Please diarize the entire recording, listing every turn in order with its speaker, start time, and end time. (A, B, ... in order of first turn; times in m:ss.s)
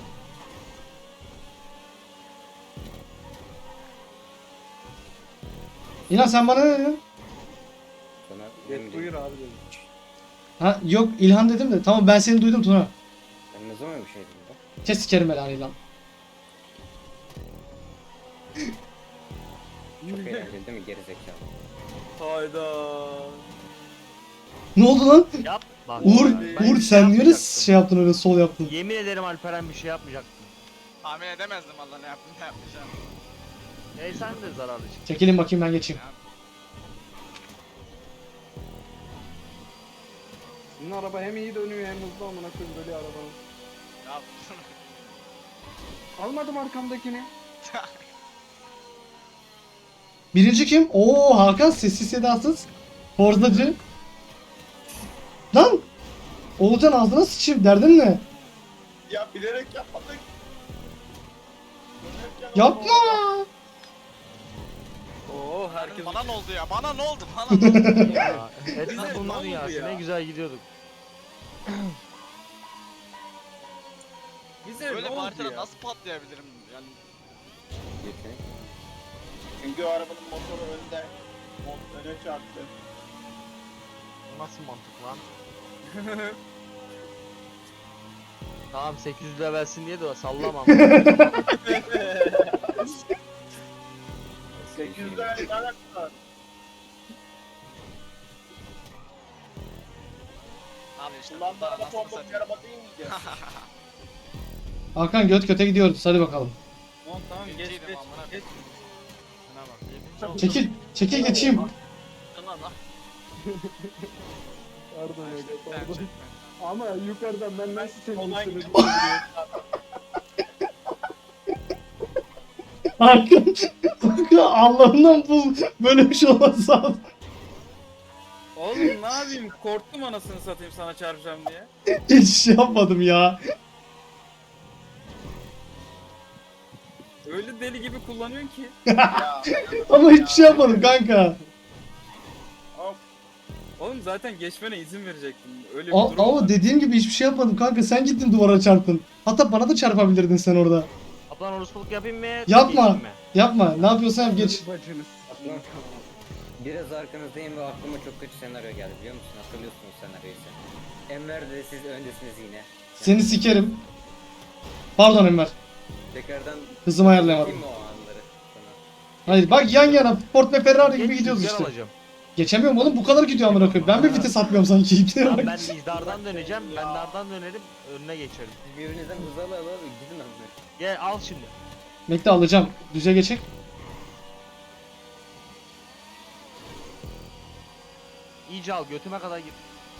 0:06.1-0:07.0 A
0:08.2-0:09.1 B
0:08.6-0:09.6 C
0:10.6-0:12.9 A
0:13.5-0:14.6 B
0:14.8-0:15.8 A
0:20.0-0:21.5 B
0:20.1-0:20.5 D
0:22.2-0:23.4 D
0:24.8-0:25.3 A
0:25.4-0:27.8 E
0:26.0-0:28.7 A
0:28.6-0:30.6 E
0:31.0-0:33.0 F
0:33.9-0:35.2 E
0:34.0-0:34.4 F
0:35.0-0:36.0 A
0:35.9-0:36.2 F
0:40.8-0:43.4 C
0:44.0-0:44.7 F
0:46.2-0:47.3 C
0:47.6-0:48.0 F
0:50.3-0:53.8 A
0:55.5-0:55.8 A
0:56.6-0:58.2 A
0:59.1-1:00.2 G
1:02.0-1:03.2 G
1:02.5-1:03.5 A
1:05.2-1:06.3 D
1:05.7-1:08.3 F
1:07.6-1:08.1 A
1:07.9-1:10.6 E
1:08.9-1:09.3 F
1:08.9-1:10.0 D
1:14.6-1:15.7 D
1:14.9-1:17.0 F
1:18.0-1:18.4 B
1:19.6-1:22.7 G
1:24.3-1:25.2 E
1:25.9-1:26.4 D
1:28.7-1:31.5 E
1:31.6-1:32.5 G
1:34.5-1:35.4 B
1:34.8-1:36.1 G
1:41.0-1:42.5 F
1:41.3-1:43.4 G
1:43.1-1:43.7 F
1:44.9-1:46.6 A
1:47.0-1:48.6 D
1:47.4-1:48.4 F
1:49.4-1:50.4 F
1:50.3-1:51.7 A
1:51.1-1:51.7 C
1:53.4-1:54.1 C
1:54.9-1:59.2 C
1:55.2-1:56.6 F
1:57.7-1:59.5 G
2:03.0-2:07.0 A
2:08.6-2:11.7 D
2:12.1-2:13.4 A
2:17.2-2:18.7 D
2:18.9-2:19.3 A
2:19.1-2:21.0 G
2:19.8-2:21.4 A
2:20.6-2:21.3 C
2:22.7-2:23.0 G
2:23.8-2:26.6 D
2:25.9-2:30.9 A
2:31.3-2:33.2 E
2:32.5-2:34.6 A
2:34.2-2:35.4 C
2:35.3-2:36.0 B
2:36.6-2:43.5 B
2:43.0-2:43.8 A
2:45.0-2:45.5 A
2:46.1-2:48.8 B
2:46.8-2:47.6 A
2:49.3-2:50.2 E
2:49.3-2:51.7 A
2:50.8-2:51.9 E
2:52.4-2:55.5 A
2:53.4-2:54.3 E
2:55.2-2:58.6 E
2:55.9-2:56.7 B
2:56.5-2:57.2 G
2:58.6-3:00.6 B
3:00.8-3:01.5 E
3:02.1-3:03.4 A
3:08.4-3:09.6 E